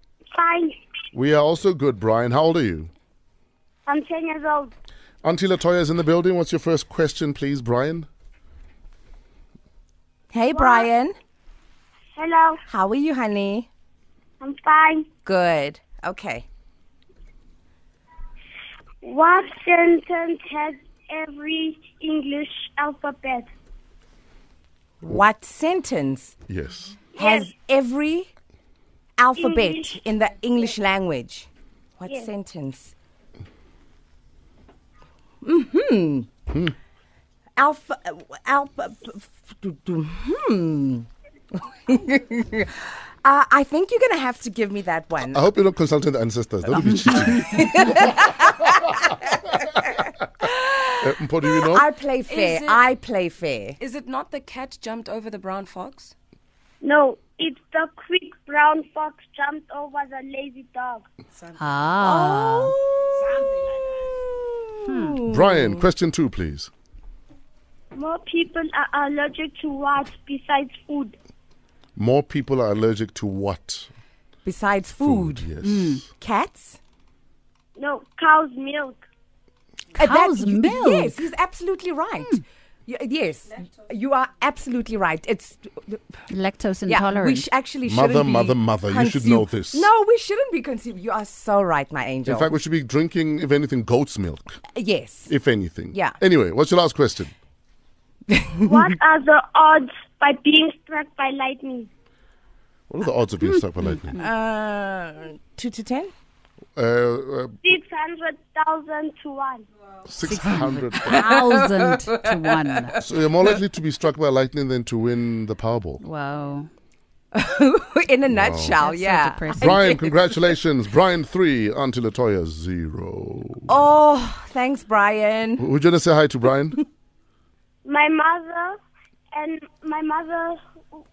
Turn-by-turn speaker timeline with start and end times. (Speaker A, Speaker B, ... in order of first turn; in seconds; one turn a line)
Speaker A: 0.3-0.7
Speaker B: 1.1-2.9
Speaker A: 3.9-4.7
Speaker B: 5.2-8.1
Speaker C: 10.3-11.2
Speaker A: 10.6-10.9
Speaker A: 12.2-12.6
Speaker C: 12.7-13.7
Speaker A: 14.4-15.1
Speaker C: 15.2-16.5
Speaker A: 19.0-23.5
Speaker C: 25.0-26.4
Speaker B: 26.5-27.0
Speaker A: 27.1-27.5
Speaker C: 27.2-28.3
Speaker C: 29.2-31.5
Speaker A: 29.4-30.1
Speaker C: 32.0-33.0
Speaker C: 35.4-36.3
Speaker C: 37.6-45.5
Speaker B: 45.3-48.0
Speaker C: 47.3-53.8
Speaker B: 51.0-51.9
Speaker D: 52.2-52.8
Speaker D: 53.8-56.1
Speaker A: 56.8-61.1
Speaker E: 61.6-62.8
Speaker C: 62.0-63.1
Speaker C: 64.4-65.9
Speaker E: 64.8-65.2
Speaker B: 65.3-66.7
Speaker A: 68.0-71.2
Speaker B: 72.0-73.9
Speaker C: 74.5-75.5
Speaker B: 75.0-76.0
Speaker E: 75.6-76.0
Speaker C: 76.2-76.8
Speaker A: 77.8-79.0
Speaker C: 80.0-86.2
Speaker E: 80.0-81.3
Speaker E: 86.3-87.5
Speaker C: 86.9-92.5
Speaker B: 87.8-89.9
Speaker B: 92.3-94.6
Speaker C: 94.7-95.3
Speaker B: 95.3-97.3
Speaker C: 98.3-98.9
Speaker A: 98.7-101.9
Speaker B: 102.9-104.2
Speaker C: 104.2-106.1
Speaker B: 106.8-107.6
Speaker A: 107.6-109.7
Speaker B: 110.1-111.2
Speaker E: 110.2-113.0
Speaker C: 111.1-112.9
Speaker B: 113.0-116.0
Speaker E: 116.0-116.7
Speaker C: 117.3-120.5
Speaker B: 118.3-118.8
Speaker E: 118.8-119.8
Speaker B: 119.6-123.7
Speaker C: 123.7-125.7
Speaker B: 125.6-126.8
Speaker A: 127.8-128.8
Speaker A: 129.3-130.6